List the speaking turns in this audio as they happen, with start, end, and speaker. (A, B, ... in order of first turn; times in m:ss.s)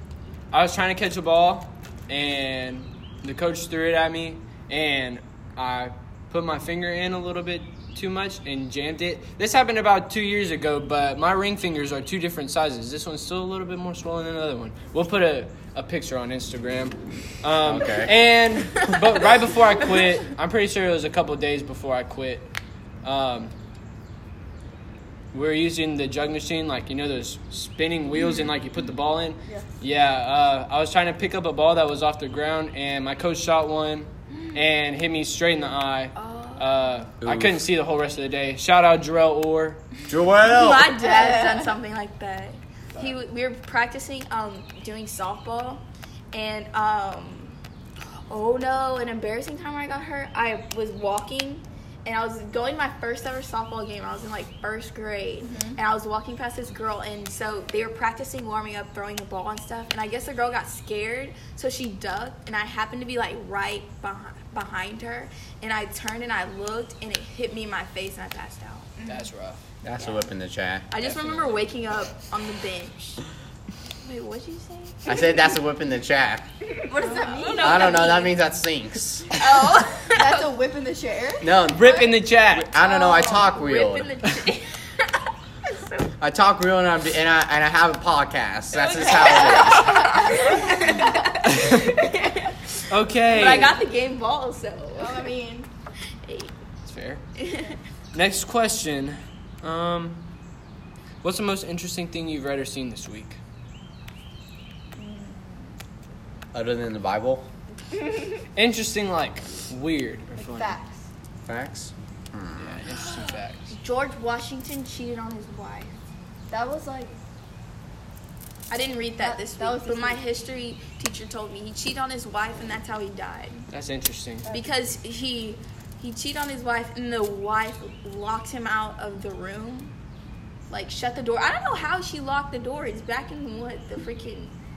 0:00.5-0:22.5 A
0:17.6-0:18.1 B
0:23.0-0:23.5 A
0:25.3-0:39.8 A
0:36.2-0:36.7 C
0:37.2-0:37.7 B
0:40.1-0:40.9 B
0:40.4-0:47.6 C
0:41.0-0:41.7 D
0:48.3-1:09.0 C
0:55.4-0:55.8 D
1:09.1-1:09.6 A
1:09.8-1:11.0 B
1:10.9-1:13.2 C
1:11.0-1:11.5 A
1:14.0-1:15.4 C
1:15.1-1:16.4 B
1:16.8-1:18.4 C
1:16.9-1:18.2 D
1:17.6-1:19.4 B
1:19.3-1:20.6 C
1:20.2-1:22.2 D
1:21.4-1:22.0 B
1:21.7-1:22.7 A
1:22.5-1:24.1 B
1:22.8-1:23.5 D
1:23.1-1:24.8 C
1:25.6-1:26.1 C
1:26.2-1:30.1 B
1:28.8-1:32.6 C
1:29.7-1:31.1 D
1:31.5-1:31.8 A
1:32.9-1:33.8 A
1:33.2-1:35.3 C
1:35.0-1:35.7 D
1:36.3-1:36.5 C
1:36.8-1:37.2 A
1:37.4-1:37.8 C
1:38.1-1:40.2 A
1:41.2-1:43.4 A
1:45.0-1:45.8 D
1:46.5-1:47.5 B
1:48.6-1:50.8 A
1:50.4-1:51.1 D
1:51.5-1:52.8 B
1:52.6-1:53.7 A
1:52.9-1:55.9 C
1:56.5-1:57.1 D
1:58.7-2:03.6 C
1:59.2-2:00.3 D
2:03.7-2:04.5 A
2:04.4-2:04.7 D
2:04.5-2:09.9 C
2:10.7-2:14.5 C